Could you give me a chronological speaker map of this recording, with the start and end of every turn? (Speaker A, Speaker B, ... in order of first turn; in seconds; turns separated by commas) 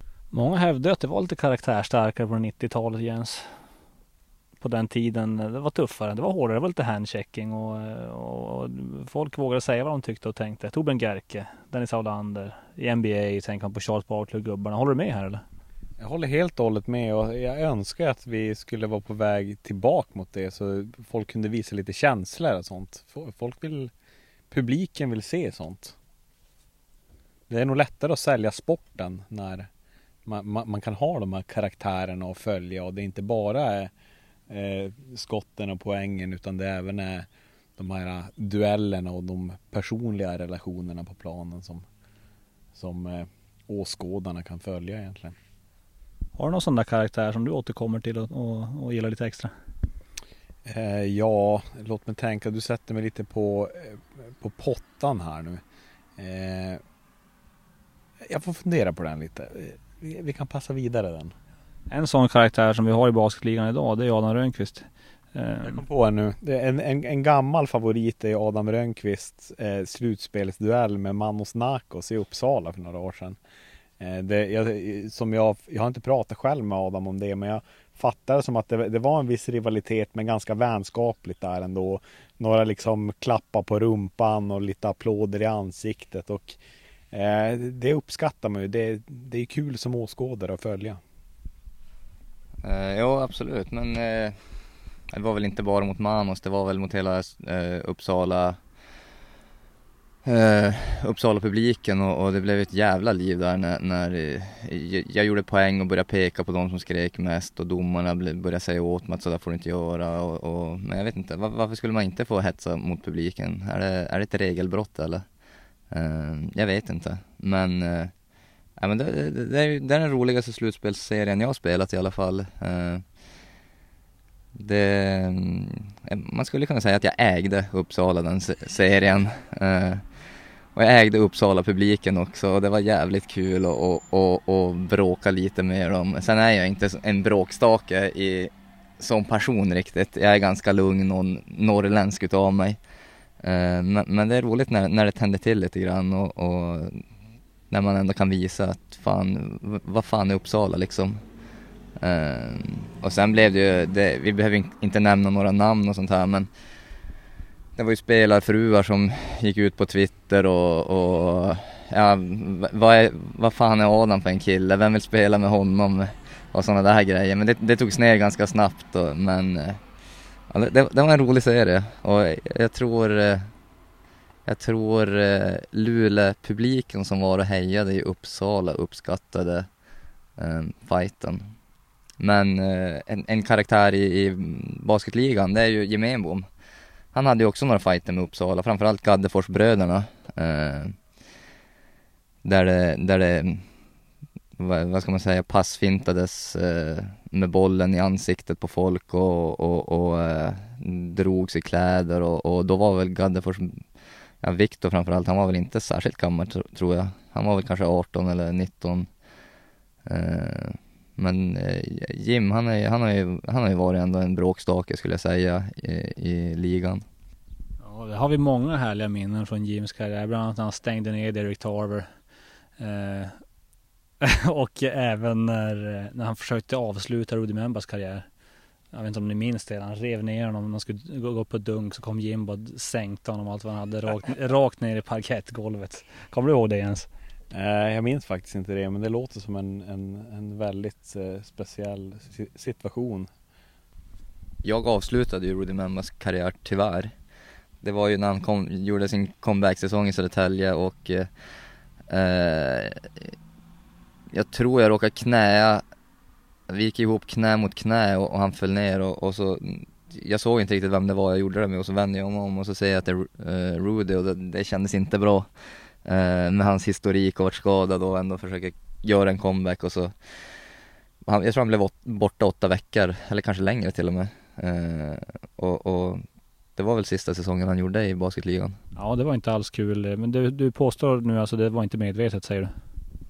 Speaker A: 0.3-3.4, Speaker A: 4.6-15.4, Speaker B: 16.0-23.9, Speaker B: 24.5-25.9, Speaker B: 27.5-29.7, Speaker B: 30.2-33.9, Speaker B: 34.5-37.2, Speaker B: 37.8-41.8, Speaker B: 42.7-45.4, Speaker A: 46.4-49.5, Speaker B: 50.6-55.6, Speaker B: 56.2-56.8, Speaker B: 58.3-61.3, Speaker A: 61.9-65.8, Speaker B: 65.6-73.4, Speaker B: 74.0-86.6, Speaker B: 87.1-91.0, Speaker C: 92.6-94.4, Speaker C: 95.1-98.6, Speaker C: 100.2-115.2, Speaker C: 115.9-118.1, Speaker C: 118.8-123.0, Speaker C: 124.5-130.0, Speaker C: 130.7-142.8, Speaker C: 143.4-147.0, Speaker C: 147.7-151.2, Speaker C: 152.0-156.5, Speaker C: 157.8-169.8, Speaker C: 170.5-173.5, Speaker C: 174.4-179.7, Speaker C: 180.4-181.5, Speaker C: 182.2-186.4, Speaker C: 187.1-191.0, Speaker C: 192.4-193.6, Speaker C: 194.6-203.8, Speaker C: 204.4-209.1, Speaker C: 210.0-217.0, Speaker A: 217.8-222.1, Speaker A: 222.8-223.4, Speaker A: 224.2-228.2, Speaker A: 228.9-237.1, Speaker B: 237.5-243.3, Speaker C: 244.6-247.1, Speaker C: 247.8-251.3, Speaker C: 252.1-253.3, Speaker C: 254.3-255.8, Speaker C: 256.7-265.5, Speaker C: 266.0-270.1, Speaker C: 271.2-276.2, Speaker C: 276.8-278.8, Speaker A: 278.9-282.7